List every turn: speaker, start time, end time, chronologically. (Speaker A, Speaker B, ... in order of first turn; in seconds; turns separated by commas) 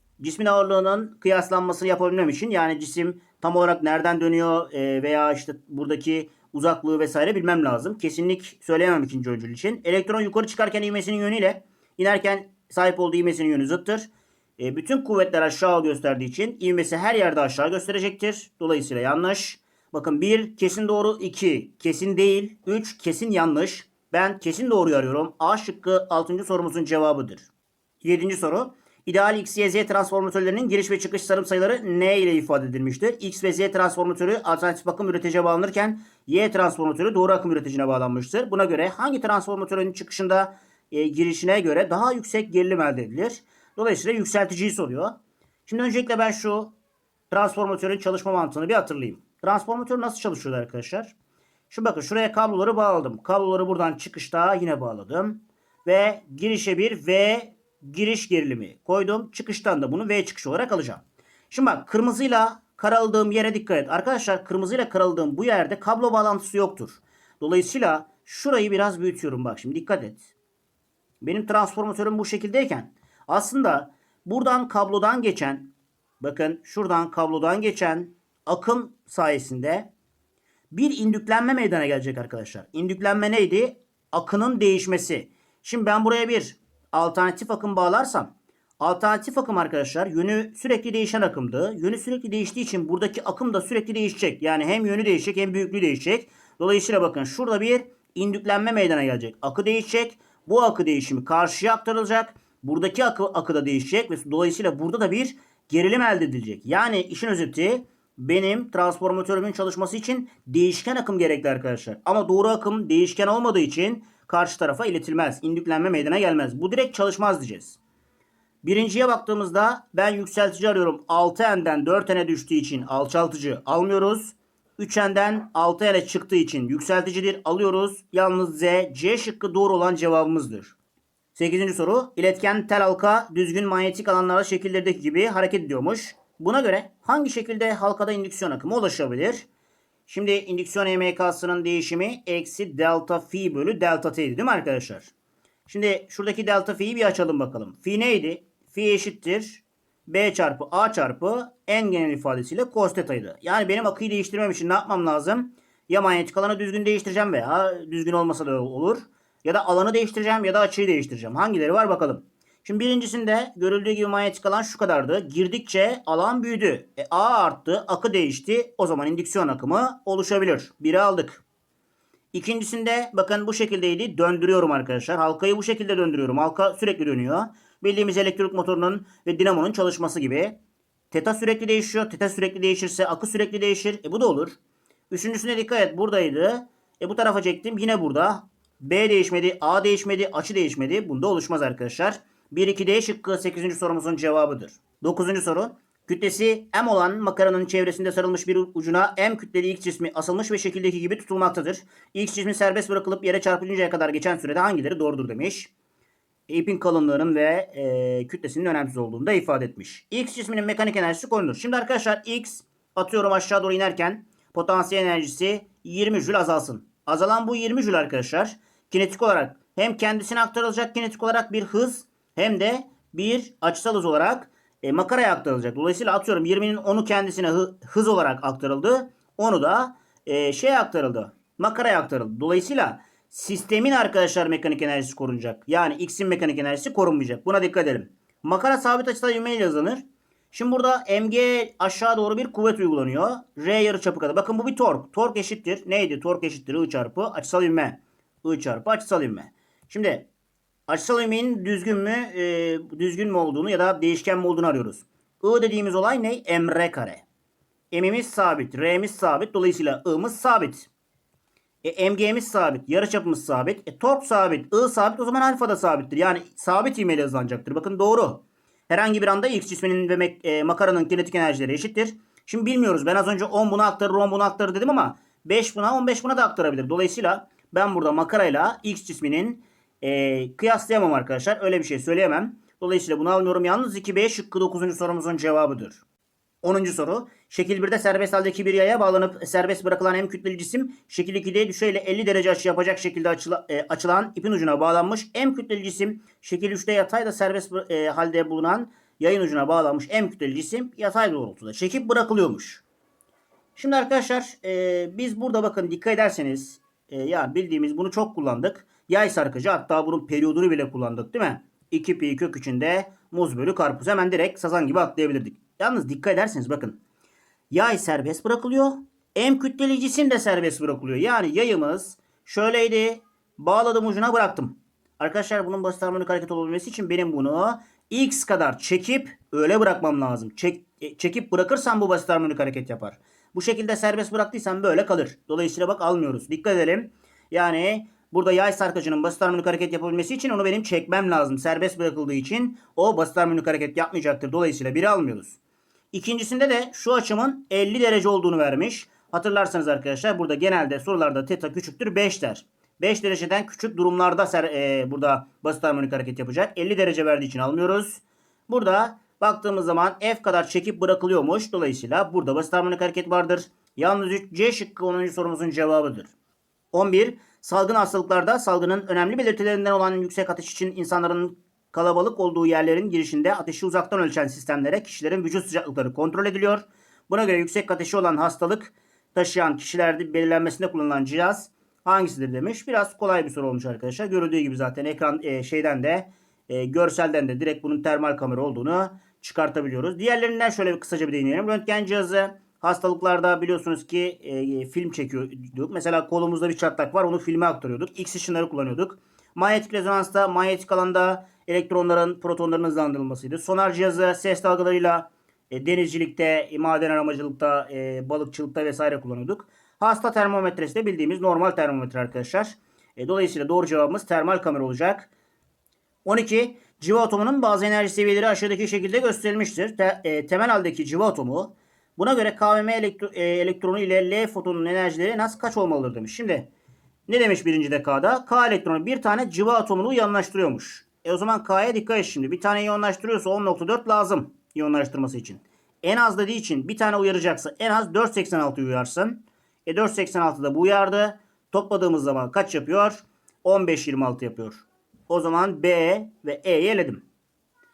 Speaker A: 0.2-27.5, Speaker A: 28.0-45.1, Speaker A: 45.6-46.7, Speaker A: 47.3-51.1, Speaker A: 51.7-70.3, Speaker A: 71.2-79.9, Speaker A: 80.7-117.8, Speaker A: 118.6-130.8, Speaker A: 131.3-139.4, Speaker A: 140.1-145.1, Speaker A: 145.7-171.4, Speaker A: 172.3-180.6, Speaker A: 181.1-184.6, Speaker A: 185.1-205.7, Speaker A: 206.5-250.3, Speaker A: 250.9-257.2, Speaker A: 257.9-260.9, Speaker A: 261.8-286.0, Speaker A: 286.6-302.8, Speaker A: 303.8-317.0, Speaker A: 317.7-345.6, Speaker A: 346.1-366.3, Speaker A: 366.9-415.3, Speaker A: 416.2-426.7, Speaker A: 427.3-447.2